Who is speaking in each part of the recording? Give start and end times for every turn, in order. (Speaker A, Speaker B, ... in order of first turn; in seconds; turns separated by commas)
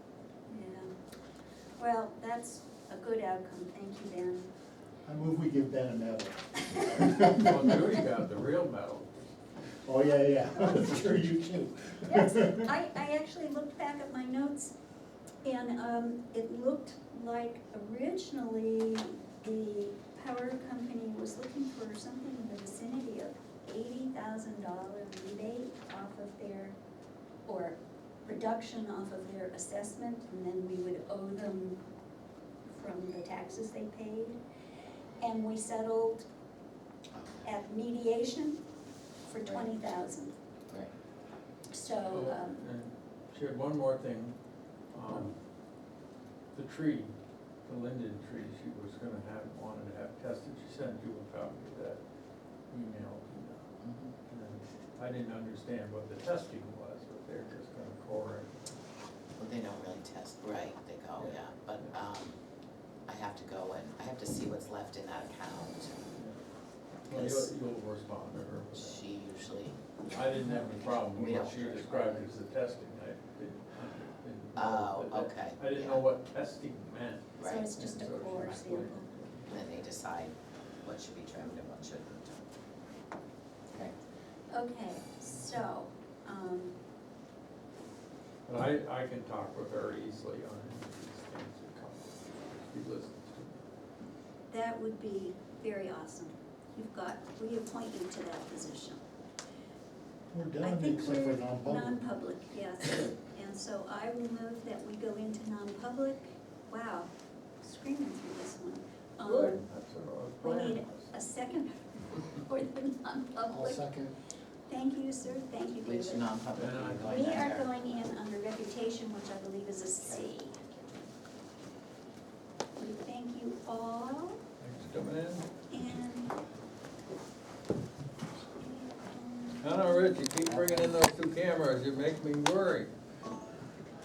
Speaker A: 0.5-0.9, Speaker A: 1.8-4.5, Speaker B: 5.1-7.7, Speaker C: 6.9-9.3, Speaker B: 9.8-12.7, Speaker A: 12.1-14.7, Speaker A: 15.4-26.8, Speaker A: 27.5-31.8, Speaker A: 32.7-34.4, Speaker A: 35.2-36.3, Speaker A: 37.4-38.6, Speaker A: 39.3-40.4, Speaker A: 41.7-42.6, Speaker C: 42.1-44.4, Speaker C: 44.9-45.3, Speaker C: 46.5-47.1, Speaker C: 47.6-52.0, Speaker C: 52.7-53.7, Speaker D: 53.8-54.1, Speaker C: 54.3-58.5, Speaker D: 59.4-62.4, Speaker C: 61.2-62.0, Speaker D: 63.1-66.0, Speaker C: 67.1-69.0, Speaker D: 67.1-67.5, Speaker D: 68.7-72.3, Speaker C: 70.1-79.8, Speaker D: 74.5-76.0, Speaker D: 77.4-77.7, Speaker A: 77.4-79.1, Speaker D: 79.5-82.5, Speaker A: 84.5-86.8, Speaker C: 88.5-93.6, Speaker A: 94.5-99.0, Speaker B: 100.3-102.0, Speaker A: 100.6-109.6, Speaker C: 109.2-111.1, Speaker A: 110.4-113.8, Speaker B: 113.5-114.2, Speaker A: 114.7-116.3, Speaker D: 115.8-118.0, Speaker C: 116.5-117.4, Speaker A: 117.1-120.6, Speaker D: 120.0-121.0, Speaker A: 122.8-124.4, Speaker C: 124.6-125.5, Speaker A: 125.7-126.3, Speaker A: 128.6-130.2, Speaker C: 129.6-132.9, Speaker B: 130.5-130.8